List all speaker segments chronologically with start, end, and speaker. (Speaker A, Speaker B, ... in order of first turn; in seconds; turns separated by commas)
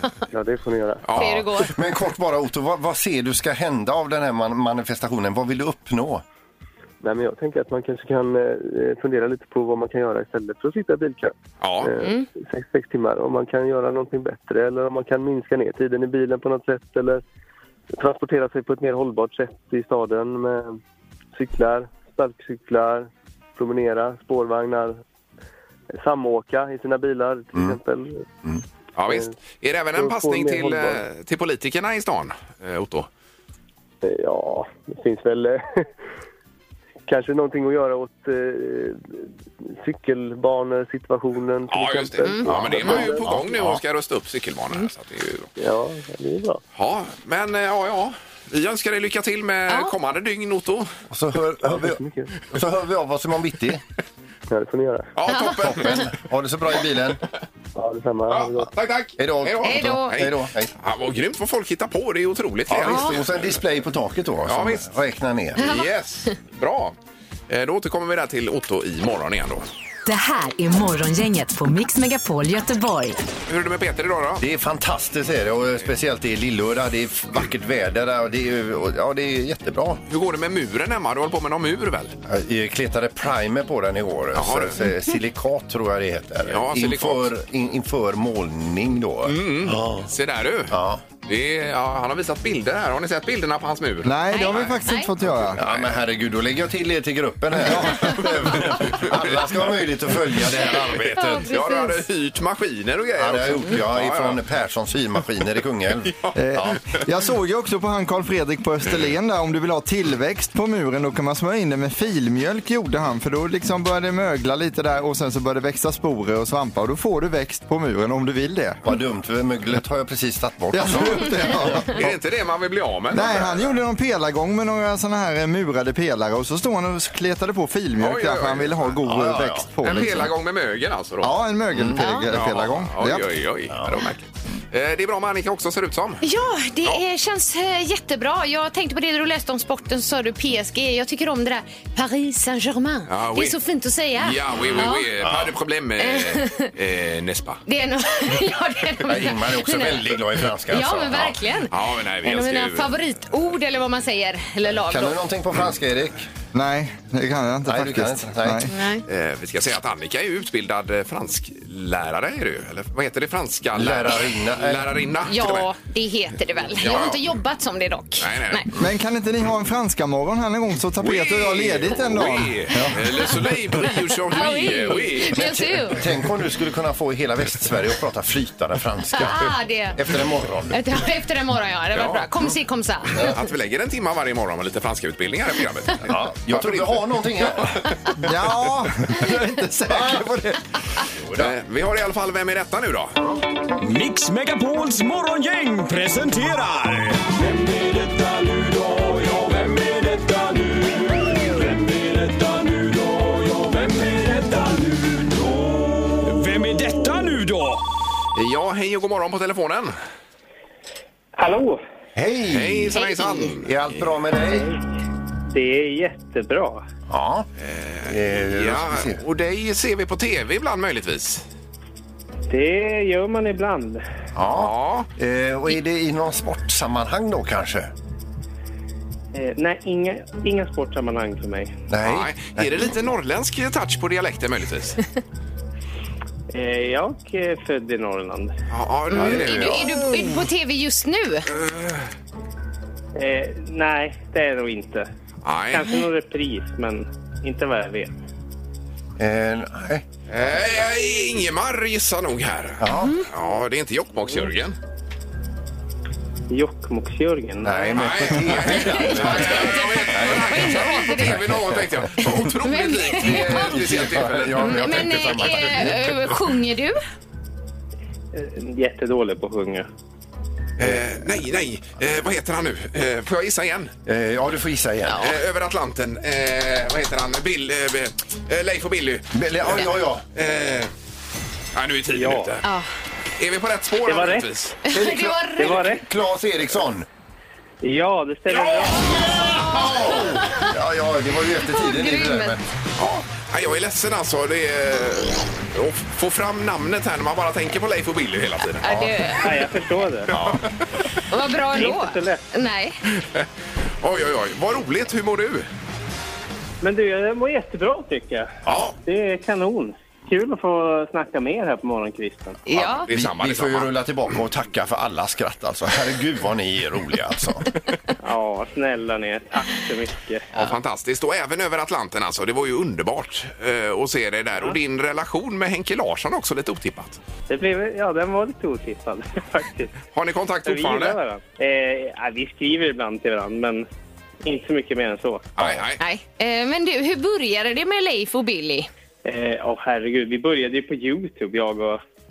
Speaker A: 0.3-1.1, Speaker B: 1.1-1.7, Speaker C: 1.1-1.7, Speaker D: 1.2-6.2, Speaker A: 7.0-17.2, Speaker B: 11.6-11.9, Speaker C: 12.0-12.3, Speaker A: 17.9-20.8, Speaker A: 21.3-25.0, Speaker A: 25.9-28.3, Speaker B: 28.9-33.1, Speaker A: 29.1-29.3, Speaker A: 29.9-31.0, Speaker A: 34.0-35.9, Speaker A: 37.1-43.3, Speaker B: 41.7-45.5, Speaker D: 42.5-43.8, Speaker A: 45.6-46.6, Speaker B: 46.8-50.9, Speaker D: 51.1-53.8, Speaker A: 51.6-52.3, Speaker A: 54.5-55.1, Speaker B: 55.1-56.1, Speaker C: 55.3-55.6, Speaker D: 55.4-57.2, Speaker A: 57.8-58.7, Speaker B: 58.3-63.6, Speaker D: 59.2-60.7, Speaker C: 59.6-60.2, Speaker D: 62.7-65.6, Speaker C: 62.9-63.1, Speaker B: 64.5-64.9, Speaker B: 65.6-66.9, Speaker C: 65.6-65.9, Speaker B: 67.5-69.7, Speaker E: 70.1-73.2, Speaker B: 73.5-74.4, Speaker D: 74.4-80.0, Speaker B: 80.1-82.2, Speaker D: 82.3-90.1, Speaker B: 84.3-84.8, Speaker B: 86.5-87.3, Speaker B: 89.2-94.8, Speaker D: 90.7-91.0, Speaker F: 94.0-95.6, Speaker C: 94.3-95.1, Speaker B: 95.3-95.9, Speaker D: 95.6-101.5, Speaker F: 97.6-98.6, Speaker B: 98.6-99.7, Speaker B: 100.5-104.4, Speaker C: 101.1-102.0, Speaker D: 103.2-106.8, Speaker F: 106.3-118.8, Speaker D: 118.8-121.8, Speaker F: 120.7-122.1, Speaker B: 121.9-123.7, Speaker F: 123.1-130.3, Speaker B: 128.0-128.9, Speaker D: 129.1-130.1, Speaker B: 129.8-131.4, Speaker F: 131.2-133.3, Speaker C: 132.0-132.3, Speaker B: 132.3-136.2, Speaker D: 133.7-134.0, Speaker C: 136.2-145.1, Speaker B: 143.1-143.6, Speaker B: 144.2-147.6, Speaker D: 145.2-145.5, Speaker C: 146.0-146.7, Speaker C: 147.7-151.7, Speaker D: 149.1-151.4, Speaker B: 151.7-152.9, Speaker C: 152.2-155.2, Speaker D: 154.8-156.3, Speaker F: 156.5-158.7, Speaker D: 157.7-158.7, Speaker C: 158.7-159.0, Speaker B: 159.1-165.7, Speaker D: 163.7-165.0, Speaker C: 165.2-168.7, Speaker B: 166.8-167.2, Speaker B: 168.2-168.6, Speaker F: 168.8-173.2, Speaker B: 171.0-175.4, Speaker C: 174.3-176.0, Speaker D: 175.3-180.8, Speaker C: 179.1-180.0, Speaker C: 180.7-183.3, Speaker B: 181.9-182.2, Speaker B: 183.2-187.9, Speaker D: 186.1-187.9, Speaker F: 188.2-190.6, Speaker D: 189.9-190.2, Speaker B: 191.3-193.1, Speaker G: 193.9-197.2, Speaker G: 203.8-204.5, Speaker G: 206.3-207.8, Speaker B: 208.3-209.9, Speaker H: 211.4-211.8, Speaker D: 212.2-212.9, Speaker B: 212.5-213.9, Speaker C: 212.9-213.5, Speaker D: 213.6-214.7, Speaker H: 215.5-216.8, Speaker D: 217.1-217.5, Speaker B: 217.6-221.4, Speaker D: 218.1-219.2, Speaker H: 222.5-224.0, Speaker D: 224.3-227.9, Speaker B: 224.4-225.1, Speaker H: 229.3-231.8, Speaker D: 231.9-232.9, Speaker B: 232.0-235.0, Speaker H: 236.5-238.5, Speaker B: 238.7-240.2, Speaker D: 239.1-239.9, Speaker C: 239.1-241.5, Speaker B: 241.6-242.0, Speaker H: 243.2-245.1, Speaker B: 245.4-245.9, Speaker H: 245.7-248.1, Speaker D: 249.2-250.1, Speaker B: 250.3-254.8, Speaker D: 252.8-253.2, Speaker H: 256.5-258.0, Speaker D: 257.6-261.9, Speaker B: 257.9-265.5, Speaker C: 258.8-261.6, Speaker C: 262.6-263.8, Speaker D: 263.2-266.0, Speaker C: 264.6-267.0, Speaker H: 268.3-269.9, Speaker B: 270.8-273.9, Speaker D: 274.1-275.3, Speaker B: 275.2-280.9, Speaker D: 279.3-280.2, Speaker B: 281.7-282.6, Speaker H: 282.1-282.5, Speaker C: 282.6-282.9, Speaker B: 283.4-284.8, Speaker H: 284.1-284.5, Speaker C: 284.9-285.9, Speaker D: 284.9-287.1, Speaker H: 285.6-286.1, Speaker H: 287.8-289.3, Speaker B: 288.5-290.3, Speaker C: 289.4-290.7, Speaker D: 289.7-292.6, Speaker C: 291.7-292.6, Speaker B: 293.0-299.6, Speaker C: 298.8-299.4, Speaker H: 299.4-300.3, Speaker B: 300.3-300.8, Speaker D: 300.3-300.6, Speaker C: 301.3-302.9, Speaker H: 301.7-302.4, Speaker B: 303.1-303.5, Speaker B: 304.0-305.7, Speaker H: 306.8-308.5, Speaker B: 308.6-308.9, Speaker H: 309.1-312.6, Speaker C: 312.6-313.1, Speaker D: 312.8-317.7, Speaker B: 313.1-313.9, Speaker H: 318.2-320.5, Speaker B: 320.5-327.2, Speaker H: 327.5-329.9, Speaker B: 330.1-331.2, Speaker H: 330.6-333.9, Speaker H: 334.4-335.8, Speaker B: 335.6-336.0, Speaker C: 336.0-338.9, Speaker H: 339.2-342.0